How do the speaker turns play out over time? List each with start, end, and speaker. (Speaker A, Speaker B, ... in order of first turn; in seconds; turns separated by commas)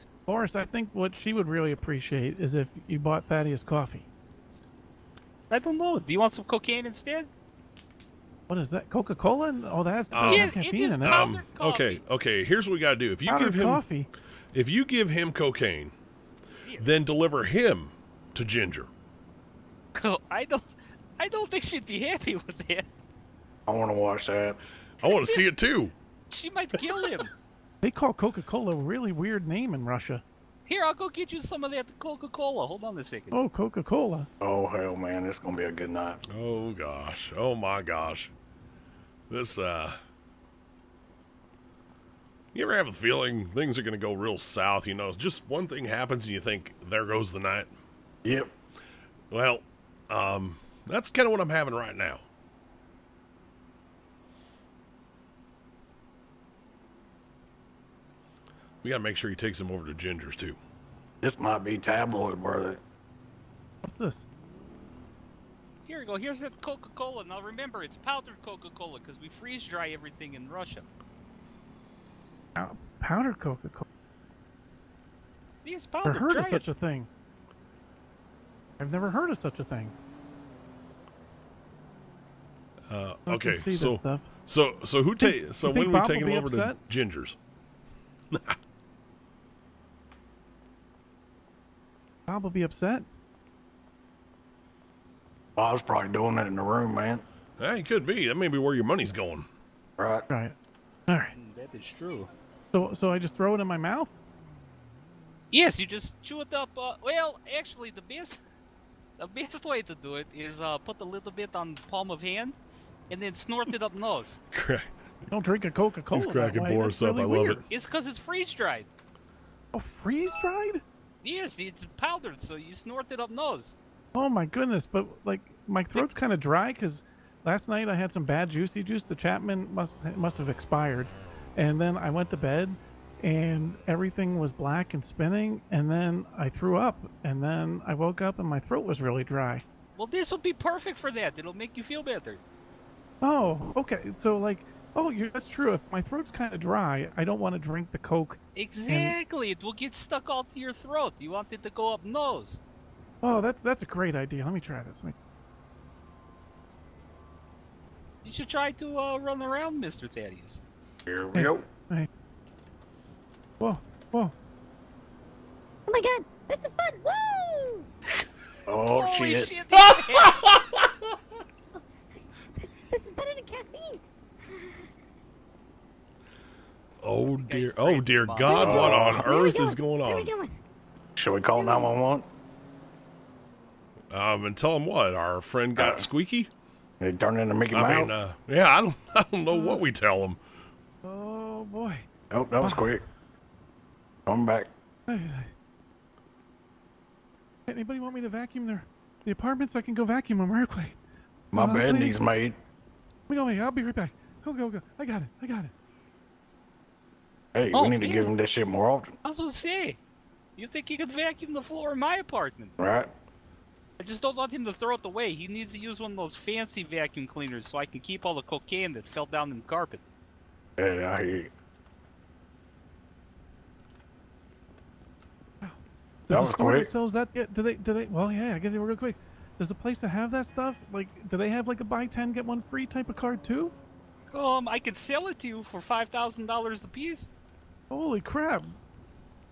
Speaker A: 0.3-4.1, Speaker B: 5.5-7.3, Speaker A: 8.5-11.2, Speaker C: 10.1-13.8, Speaker B: 10.3-12.0, Speaker A: 13.3-14.1, Speaker C: 14.5-15.9, Speaker B: 16.6-16.9, Speaker C: 16.8-18.9, Speaker B: 19.9-20.6, Speaker B: 21.2-22.9, Speaker D: 23.7-24.6, Speaker C: 25.0-25.9, Speaker B: 25.1-25.4, Speaker B: 26.3-27.3, Speaker A: 27.8-30.2, Speaker B: 30.7-33.4, Speaker A: 33.3-34.3, Speaker D: 34.4-36.2, Speaker C: 36.3-38.3, Speaker C: 39.3-40.0, Speaker C: 42.5-47.7, Speaker D: 48.2-48.5, Speaker C: 49.3-52.2, Speaker C: 58.8-60.6, Speaker D: 61.2-62.8, Speaker A: 63.8-64.3, Speaker B: 65.8-70.9, Speaker A: 72.6-73.9, Speaker B: 75.6-76.7, Speaker A: 76.0-77.1, Speaker A: 78.8-80.0, Speaker C: 82.9-87.4, Speaker A: 83.3-84.3, Speaker A: 85.2-86.8, Speaker C: 88.3-88.6, Speaker A: 92.3-93.1, Speaker D: 95.6-97.2, Speaker C: 97.6-99.5, Speaker D: 100.0-100.3, Speaker A: 100.3-100.5, Speaker A: 101.1-101.3, Speaker B: 101.3-102.3, Speaker A: 102.7-104.2, Speaker B: 105.5-108.4, Speaker B: 109.2-112.6, Speaker B: 113.1-114.4, Speaker C: 114.5-114.9, Speaker A: 115.3-117.7, Speaker C: 116.1-117.6, Speaker B: 117.7-118.9, Speaker A: 119.7-120.8, Speaker B: 121.2-123.8, Speaker A: 124.2-139.7, Speaker B: 140.0-142.4, Speaker A: 143.2-149.2, Speaker B: 148.6-152.6, Speaker A: 153.2-155.2, Speaker B: 158.2-160.6, Speaker D: 161.1-161.7, Speaker A: 161.3-162.1, Speaker A: 163.6-164.3, Speaker E: 165.9-167.8, Speaker D: 168.7-169.5, Speaker B: 168.9-170.4, Speaker C: 169.8-170.8, Speaker E: 172.9-174.0, Speaker C: 177.0-180.3, Speaker B: 177.4-178.9, Speaker D: 178.5-179.2, Speaker E: 179.2-180.5, Speaker D: 181.2-182.3, Speaker C: 184.1-186.5, Speaker D: 185.8-186.1, Speaker D: 187.0-188.2, Speaker C: 187.7-190.4, Speaker A: 189.5-189.8, Speaker A: 191.0-192.1, Speaker D: 192.3-193.0, Speaker A: 192.6-192.9, Speaker D: 194.3-194.7, Speaker A: 195.1-195.5, Speaker A: 197.7-201.0, Speaker D: 201.5-202.6, Speaker A: 201.5-202.2, Speaker A: 203.3-205.7, Speaker D: 207.6-209.2, Speaker B: 207.7-208.3, Speaker B: 209.2-210.0, Speaker B: 210.6-212.7, Speaker D: 212.8-213.1, Speaker B: 214.0-220.0, Speaker D: 220.8-221.5, Speaker A: 225.6-233.8, Speaker D: 226.3-226.9, Speaker B: 234.3-237.3, Speaker A: 237.9-238.8